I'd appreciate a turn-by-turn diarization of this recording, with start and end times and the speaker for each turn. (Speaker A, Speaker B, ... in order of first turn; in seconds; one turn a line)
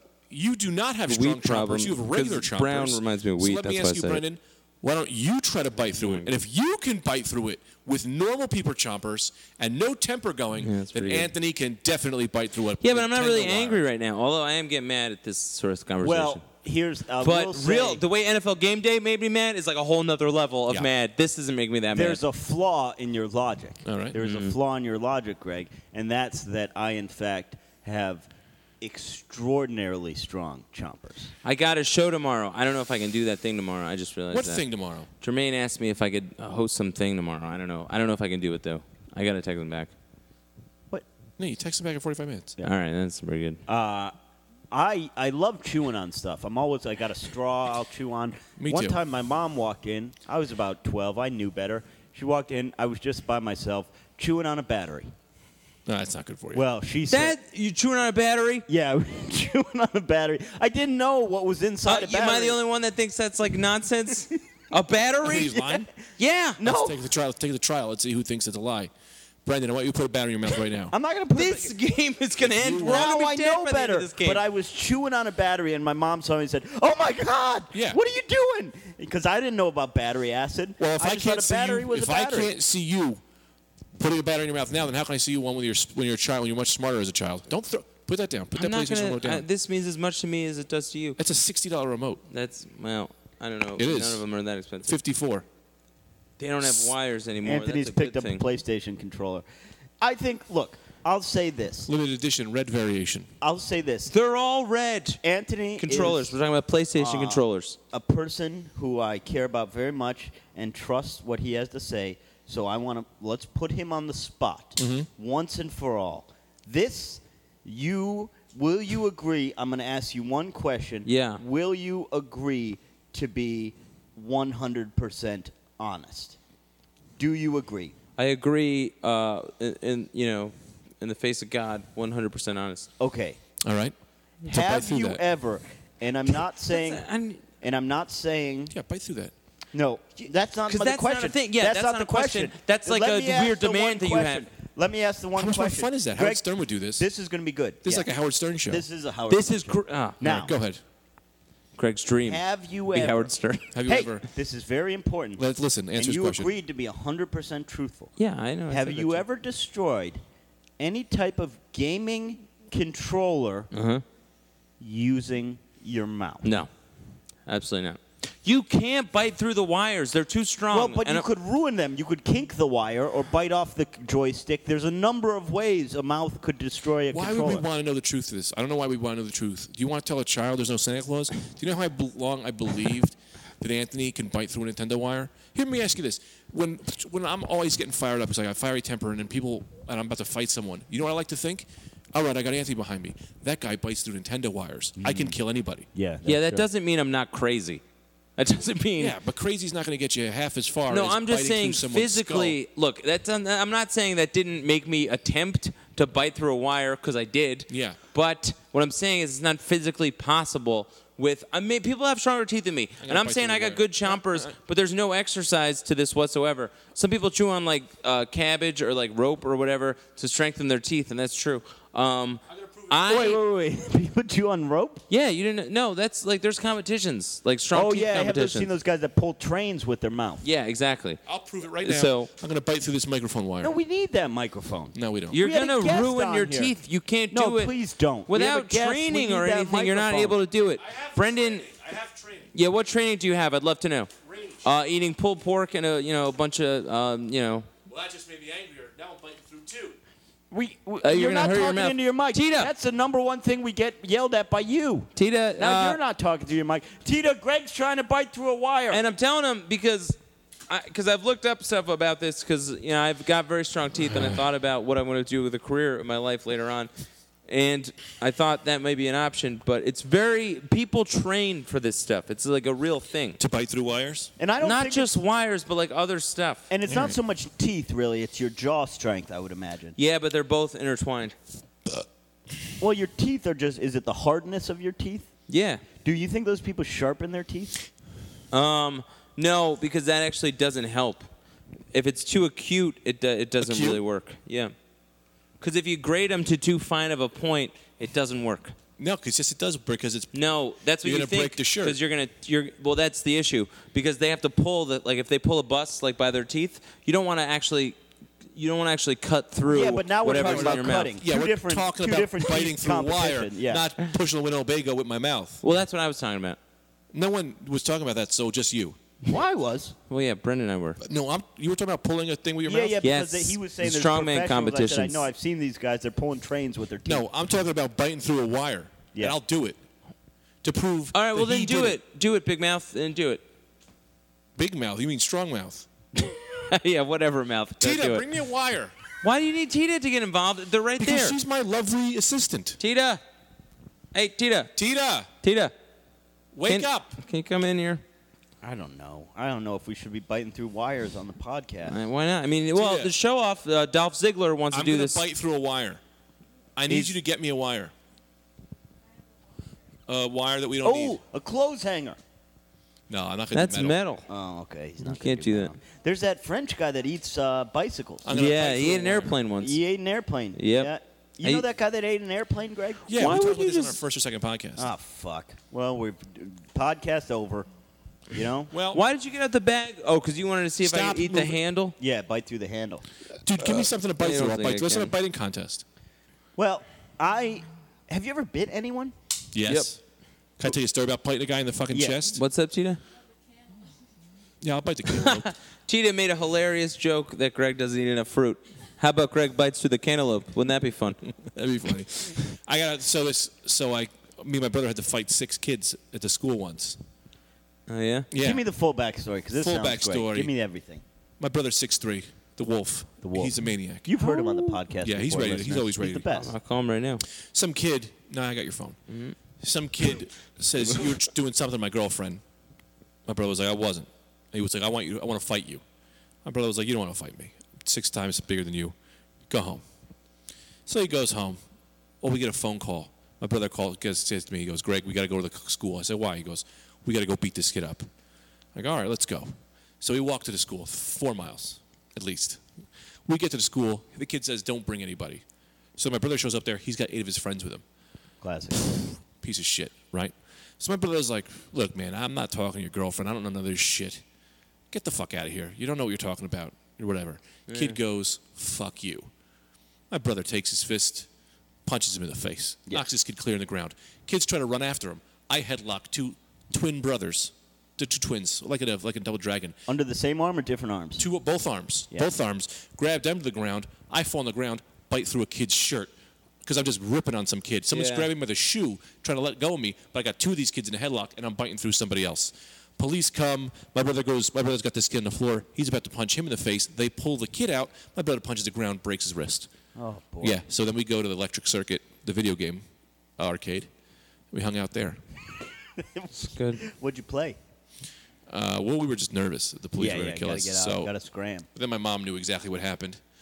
Speaker A: 0.3-13.8
Speaker B: 1.1-4.2
Speaker B: 5.9-6.3
Speaker B: 10.6-11.3
Speaker B: 12.8-16.4
Speaker C: 16.0-18.0
Speaker B: 17.2-22.2
Speaker C: 21.9-28.3
Speaker A: 23.9-24.2
Speaker B: 24.2-24.5
Speaker C: 28.8-31.3
Speaker B: 31.4-34.6
Speaker A: 34.3-35.1
Speaker B: 35.2-39.9
Speaker A: 41.4-42.6
Speaker B: 42.6-43.6
Speaker C: 43.7-44.1
Speaker C: 44.7-55.1
Speaker A: 48.6-49.0
Speaker A: 55.9-56.6
Speaker C: 56.5-57.4
Speaker B: 57.1-58.6
Speaker C: 58.7-62.6
Speaker B: 61.9-66.6
Speaker A: 65.2-65.9
Speaker C: 66.6-67.0
Speaker A: 66.6-68.9
Speaker A: 69.5-70.9
Speaker C: 70.9-71.8
Speaker B: 71.3-74.4
Speaker A: 72.4-73.0
Speaker C: 72.8-82.5
Speaker A: 77.7-78.0
Speaker A: 80.8-83.2
Speaker A: 84.0-89.5
Speaker B: 88.5-91.2
Speaker A: 91.2-92.2
Speaker B: 92.3-95.0
Speaker A: 93.8-94.2
Speaker A: 94.9-95.4
Speaker B: 96.4-98.4
Speaker A: 96.6-96.9
Speaker C: 97.4-99.4
Speaker C: 100.0-101.9
Speaker A: 101.9-103.3
Speaker C: 103.4-104.1
Speaker B: 104.1-105.2
Speaker C: 105.2-106.4
Speaker B: 105.8-107.8
Speaker C: 107.0-126.4
Speaker A: 114.8-115.1
Speaker B: 121.0-121.4
Speaker C: 127.2-127.9
Speaker B: 128.2-132.9
Speaker C: 133.0-133.4
Speaker A: 133.6-133.9
Speaker A: 134.4-135.2
Speaker C: 134.5-137.1
Speaker B: 136.7-137.4
Speaker C: 137.6-138.8
Speaker A: 138.7-139.3
Speaker C: 139.7-146.4
Speaker B: 140.7-144.5
Speaker A: 145.4-147.1
Speaker C: 147.0-148.1
Speaker A: 147.8-148.8
Speaker C: 148.7-150.6
Speaker B: 149.3-150.3
Speaker A: 150.2-150.8
Speaker B: 151.8-153.7
Speaker C: 152.2-153.3
Speaker A: 153.7-154.3
Speaker C: 153.8-158.1
Speaker A: 155.4-156.5
Speaker B: 158.2-159.2
Speaker C: 158.7-160.2
Speaker C: 160.8-163.7
Speaker B: 163.7-164.0
Speaker C: 164.8-166.5
Speaker B: 166.4-166.7
Speaker B: 167.5-171.3
Speaker C: 170.7-177.6
Speaker A: 177.1-195.9
Speaker C: 195.0-195.4
Speaker C: 195.9-196.7
Speaker B: 196.2-197.8
Speaker B: 198.4-199.1
Speaker A: 199.0-202.6
Speaker B: 200.9-223.4
Speaker A: 207.7-208.0
Speaker A: 213.0-214.5
Speaker A: 222.5-223.2
Speaker C: 223.1-225.1
Speaker B: 225.1-228.7
Speaker C: 227.7-230.4
Speaker B: 230.4-231.2
Speaker A: 231.3-233.8
Speaker B: 231.8-232.3
Speaker C: 233.6-236.8
Speaker A: 234.9-235.4
Speaker B: 235.3-237.7
Speaker C: 237.3-240.4
Speaker B: 238.3-241.7
Speaker A: 240.8-242.5
Speaker B: 242.5-244.1
Speaker A: 244.2-244.6
Speaker B: 244.6-247.7
Speaker A: 247.9-250.0
Speaker C: 250.5-259.0
Speaker B: 251.0-252.7
Speaker B: 255.2-256.0
Speaker B: 258.9-266.9
Speaker B: 267.5-273.4
Speaker A: 273.4-274.3
Speaker C: 274.4-275.1
Speaker B: 274.6-276.7
Speaker C: 276.7-280.0
Speaker A: 276.9-277.1
Speaker B: 280.0-281.4
Speaker C: 282.8-285.3
Speaker B: 285.5-285.8
Speaker C: 286.0-287.8
Speaker B: 288.5-291.3
Speaker B: 291.9-294.7
Speaker A: 293.6-294.0
Speaker B: 295.6-298.8
Speaker A: 299.0-300.3
Speaker B: 300.3-308.0
Speaker A: 301.0-302.0
Speaker B: 308.5-311.1
Speaker C: 309.7-313.9
Speaker A: 310.4-315.6
Speaker B: 315.6-316.6
Speaker A: 317.1-319.0
Speaker C: 319.2-319.9
Speaker B: 320.1-321.0
Speaker A: 321.0-323.0
Speaker C: 322.6-327.3
Speaker B: 323.0-325.2
Speaker A: 327.1-329.8
Speaker A: 330.6-332.0
Speaker B: 331.1-333.4
Speaker A: 334.6-335.9
Speaker B: 336.1-338.3
Speaker A: 337.8-338.9
Speaker B: 339.2-341.4
Speaker A: 341.0-342.8
Speaker B: 342.8-343.2
Speaker B: 344.1-344.7
Speaker A: 344.8-345.3
Speaker B: 345.4-345.7
Speaker A: 346.5-347.1
Speaker B: 346.6-348.0
Speaker C: 348.6-352.0
Speaker B: 351.9-355.2
Speaker A: 352.7-353.1
Speaker A: 354.7-356.0
Speaker A: 356.8-357.9
Speaker B: 356.9-357.1
Speaker A: 360.1-361.2
Speaker C: 360.8-362.2
Speaker A: 363.1-364.0
Speaker B: 363.5-364.2
Speaker C: 364.3-368.4
Speaker B: 365.1-365.7
Speaker A: 368.2-369.4
Speaker B: 368.3-369.8
Speaker C: 369.6-373.1
Speaker B: 370.6-370.9
Speaker A: 373.1-374.9
Speaker B: 373.1-374.0
Speaker C: 374.8-377.7
Speaker C: 378.3-378.7
Speaker A: 378.7-379.0
Speaker B: 378.9-381.9
Speaker A: 380.8-381.6
Speaker C: 382.0-383.0
Speaker A: 383.4-385.8
Speaker B: 384.2-385.1
Speaker C: 386.6-389.1
Speaker A: 389.5-390.0
Speaker A: 390.6-392.4
Speaker C: 391.9-392.2
Speaker B: 392.3-393.0
Speaker A: 394.6-395.5
Speaker B: 395.2-401.2
Speaker A: 401.5-407.0
Speaker B: 407.9-408.3
Speaker A: 408.3-408.6
Speaker C: 408.4-411.0
Speaker A: 409.6-410.5
Speaker A: 411.4-414.1
Speaker C: 413.2-416.5
Speaker B: 414.2-414.8
Speaker A: 415.0-416.3
Speaker B: 416.3-417.2
Speaker A: 417.4-419.0
Speaker B: 419.1-419.4
Speaker A: 419.6-422.4
Speaker A: 423.3-425.8
Speaker A: 426.4-428.9
Speaker A: 429.5-429.8
Speaker A: 430.9-431.6
Speaker A: 432.2-438.1
Speaker A: 438.8-442.6
Speaker A: 443.3-445.4
Speaker A: 446.0-447.8
Speaker C: 448.4-448.8
Speaker A: 448.8-454.2
Speaker A: 454.9-459.3
Speaker B: 457.7-458.0
Speaker A: 460.1-461.3
Speaker A: 461.9-469.8
Speaker C: 469.9-471.2
Speaker A: 471.2-476.1
Speaker A: 476.6-489.7
Speaker B: 477.9-478.3
Speaker C: 489.9-490.6
Speaker A: 490.4-492.8
Speaker A: 493.4-493.9
Speaker A: 494.5-495.2
Speaker C: 496.0-497.6
Speaker B: 496.4-496.8
Speaker A: 498.5-501.1
Speaker C: 500.0-501.7
Speaker A: 501.7-503.2